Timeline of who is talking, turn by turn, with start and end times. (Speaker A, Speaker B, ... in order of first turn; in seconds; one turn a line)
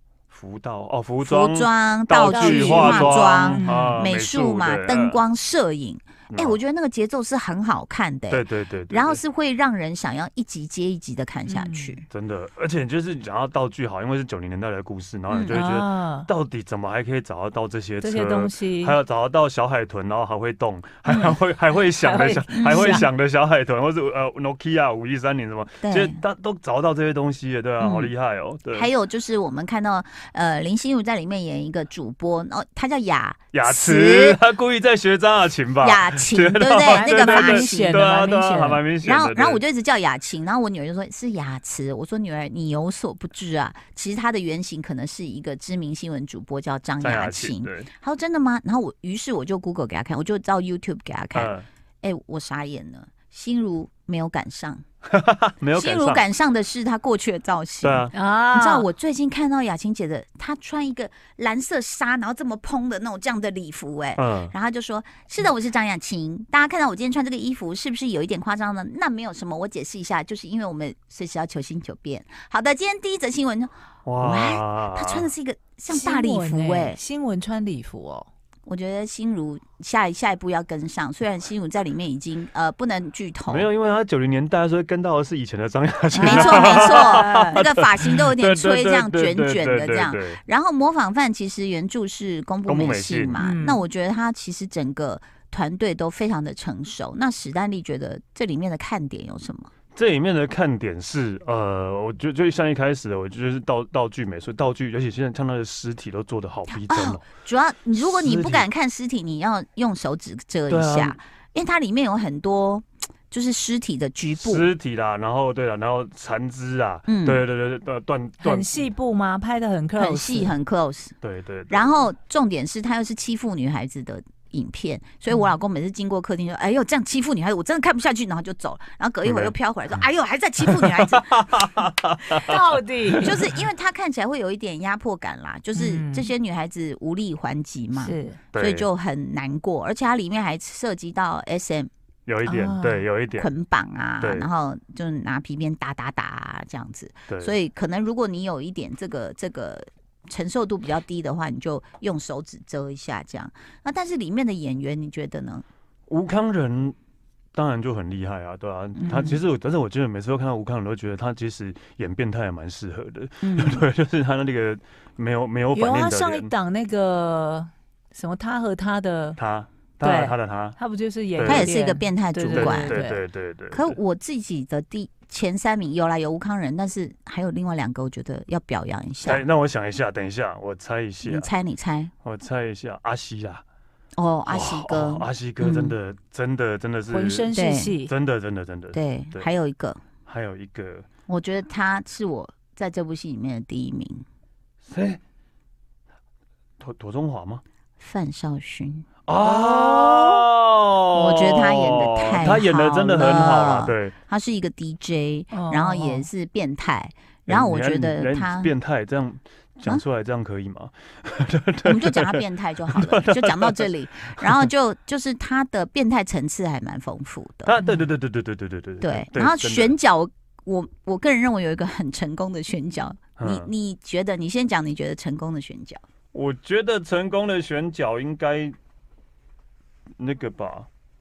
Speaker A: 0.3-5.2
Speaker B: 1.2-12.0
Speaker C: 2.3-4.0
Speaker A: 6.3-6.6
Speaker A: 8.3-9.2
Speaker C: 11.5-12.0
Speaker A: 12.1-28.9
Speaker B: 15.3-15.6
Speaker C: 15.5-16.3
Speaker C: 18.0-19.0
Speaker C: 21.9-23.1
Speaker B: 22.5-23.1
Speaker B: 25.8-26.2
Speaker B: 27.8-28.1
Speaker B: 28.7-34.4
Speaker A: 33.5-39.6
Speaker B: 35.8-38.0
Speaker C: 36.9-38.8
Speaker B: 39.0-54.8
Speaker A: 47.0-47.9
Speaker A: 51.3-51.7
Speaker A: 55.0-56.2
Speaker B: 55.8-77.0
Speaker A: 57.8-58.1
Speaker C: 58.1-58.9
Speaker A: 64.2-64.5
Speaker A: 74.0-75.3
Speaker C: 75.9-78.3
Speaker B: 78.7-83.7
Speaker A: 83.5-90.4
Speaker C: 86.1-87.6
Speaker B: 86.2-99.7
Speaker A: 92.7-93.4
Speaker C: 93.4-93.8
Speaker A: 99.9-107.2
Speaker B: 106.7-114.7
Speaker A: 108.0-108.7
Speaker A: 110.7-111.2
Speaker A: 114.4-118.7
Speaker B: 117.1-117.4
Speaker C: 118.4-120.5
Speaker B: 120.0-121.2
Speaker A: 121.2-121.9
Speaker B: 121.7-131.7
Speaker A: 129.2-129.5
Speaker A: 130.6-132.5
Speaker C: 132.4-133.4
Speaker B: 133.1-141.9
Speaker C: 135.8-136.3
Speaker C: 137.9-138.4
Speaker A: 138.5-138.9
Speaker A: 142.2-143.5
Speaker C: 142.4-143.1
Speaker B: 143.4-155.6
Speaker A: 144.2-144.5
Speaker A: 147.3-147.6
Speaker A: 156.1-156.9
Speaker A: 157.5-166.5
Speaker B: 158.9-159.4
Speaker B: 163.4-163.8
Speaker C: 165.7-169.4
Speaker A: 169.4-170.8
Speaker C: 170.0-173.2
Speaker A: 171.3-171.7
Speaker B: 171.4-173.0
Speaker A: 172.5-174.0
Speaker B: 173.7-179.4
Speaker A: 179.2-181.5
Speaker B: 181.2-182.1
Speaker A: 182.2-183.6
Speaker B: 184.2-185.9
Speaker A: 184.4-187.5
Speaker C: 187.1-188.1
Speaker B: 187.5-187.9
Speaker A: 188.0-189.5
Speaker B: 188.9-190.0
Speaker A: 190.2-191.1
Speaker B: 191.3-194.2
Speaker A: 194.8-195.2
Speaker A: 196.8-197.6
Speaker B: 198.0-200.4
Speaker A: 199.2-204.1
Speaker B: 201.1-208.7
Speaker C: 205.5-206.2
Speaker A: 207.5-214.7
Speaker B: 211.8-217.8
Speaker A: 217.7-220.0
Speaker B: 219.0-226.0
Speaker A: 223.4-223.7
Speaker A: 226.3-228.8
Speaker A: 230.2-230.9